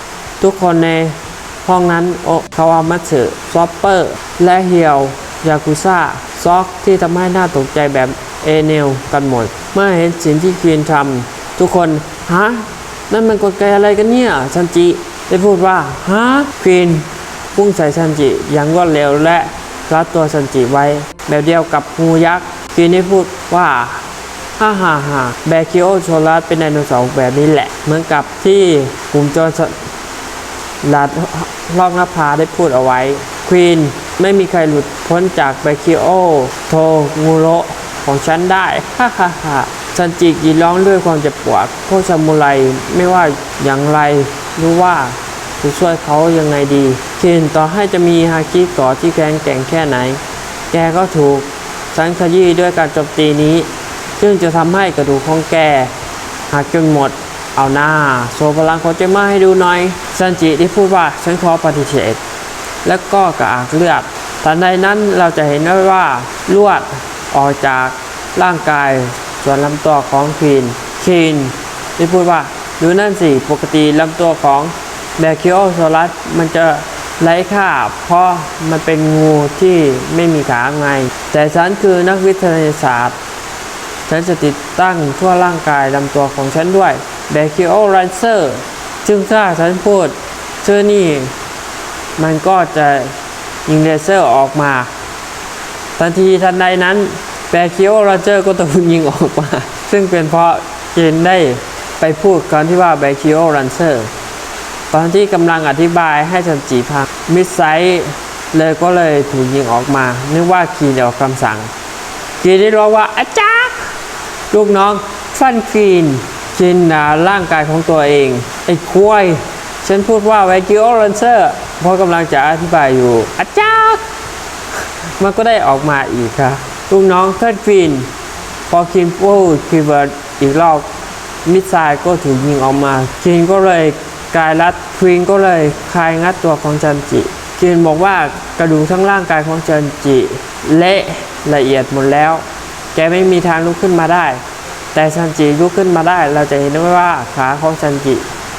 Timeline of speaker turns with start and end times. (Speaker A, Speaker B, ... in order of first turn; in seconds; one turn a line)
Speaker A: 0.4-24.1
Speaker A: 24.6-29.8
Speaker A: 30.8-50.2
Speaker A: 50.7-55.9
Speaker A: 56.5-62.2
Speaker A: 62.8-83.2
Speaker A: 84.1-91.3
Speaker A: 92.2-93.1
Speaker A: 93.7-94.9
Speaker A: 96.0-104.1
Speaker A: 104.9-111.7
Speaker A: 112.4-113.9
Speaker A: 114.5-124.0
Speaker A: 125.2-128.1
Speaker A: 128.7-130.9
Speaker A: 131.4-144.4
Speaker A: 144.9-148.3